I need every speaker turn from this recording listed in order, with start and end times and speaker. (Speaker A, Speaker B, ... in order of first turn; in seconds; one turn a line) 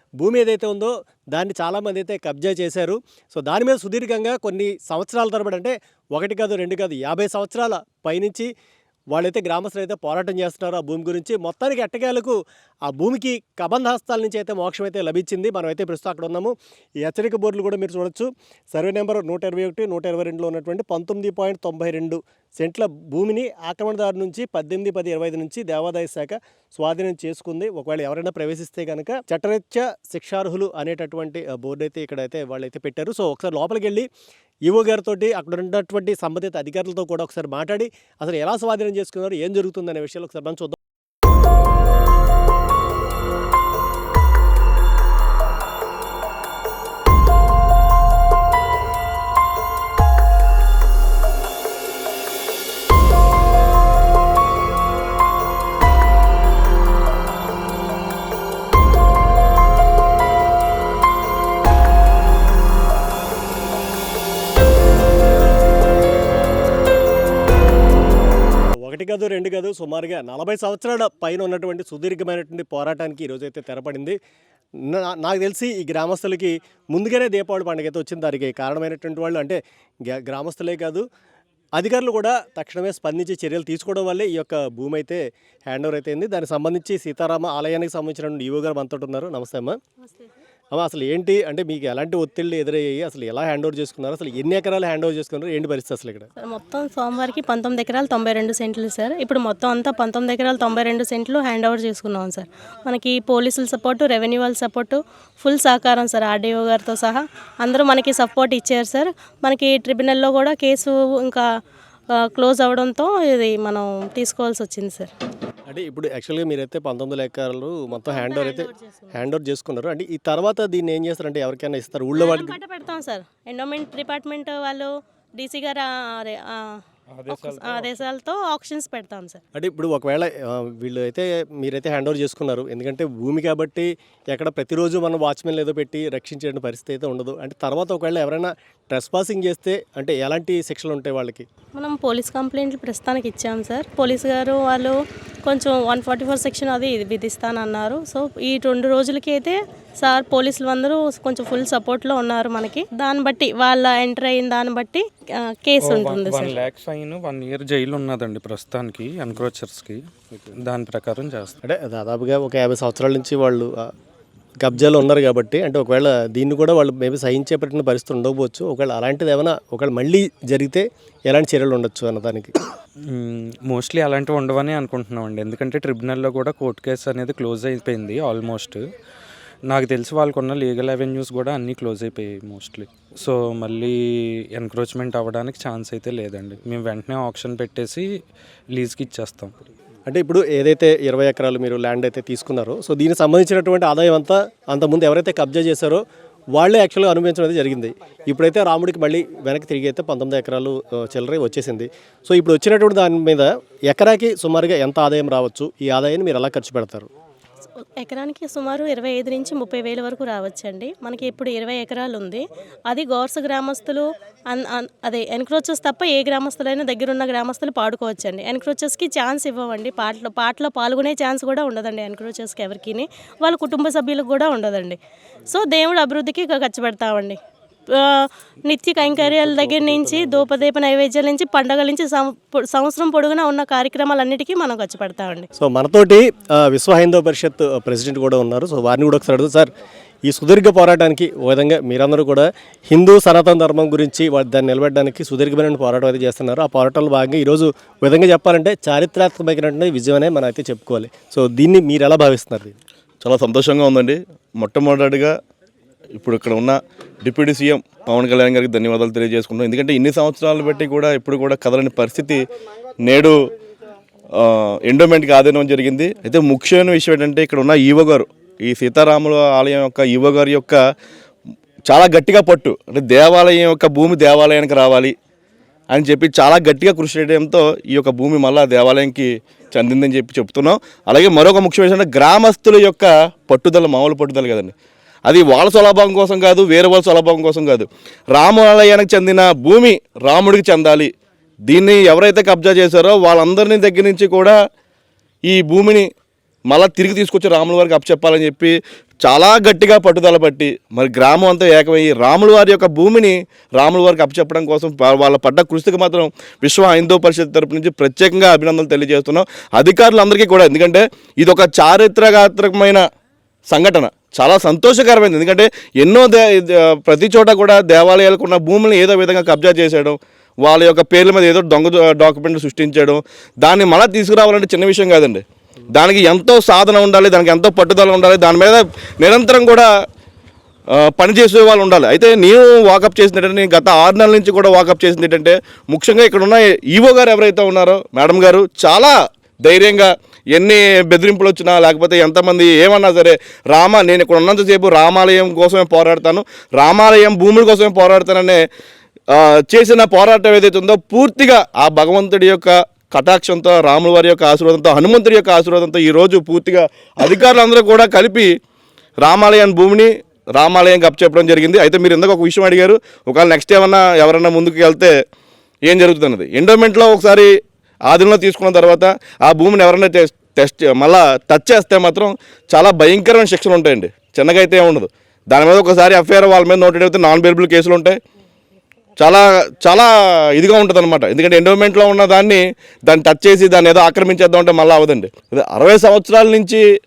Speaker A: 0.2-8.5
Speaker A: 9.1-34.1
Speaker A: 34.6-40.8
Speaker A: 68.8-74.2
Speaker A: 74.8-81.0
Speaker A: 81.7-89.8
Speaker A: 90.7-96.3
Speaker B: 96.4-111.4
Speaker B: 112.2-115.1
Speaker A: 115.7-122.6
Speaker B: 117.9-119.1
Speaker B: 122.1-129.4
Speaker C: 127.1-128.0
Speaker A: 129.5-141.4
Speaker B: 141.7-144.9
Speaker B: 145.4-156.5
Speaker C: 155.8-161.6
Speaker A: 161.6-163.9
Speaker A: 164.6-172.5
Speaker C: 173.1-178.8
Speaker C: 179.7-188.1
Speaker C: 188.7-189.5
Speaker A: 190.1-196.0
Speaker A: 196.5-207.1
Speaker B: 208.0-225.0
Speaker B: 225.5-227.4
Speaker B: 227.9-235.5
Speaker C: 229.2-230.5
Speaker A: 235.6-239.7
Speaker A: 240.2-252.8
Speaker D: 253.2-255.3
Speaker D: 256.1-262.5
Speaker D: 263.0-263.4
Speaker D: 264.3-270.8
Speaker D: 271.9-275.1
Speaker D: 275.9-284.7
Speaker D: 285.3-291.1
Speaker D: 291.7-294.5
Speaker D: 295.5-296.1
Speaker D: 296.7-313.0
Speaker D: 313.7-329.9
Speaker D: 330.9-348.6
Speaker D: 349.3-358.5
Speaker D: 359.2-365.1
Speaker D: 365.9-367.5
Speaker D: 368.1-378.1
Speaker D: 379.2-386.8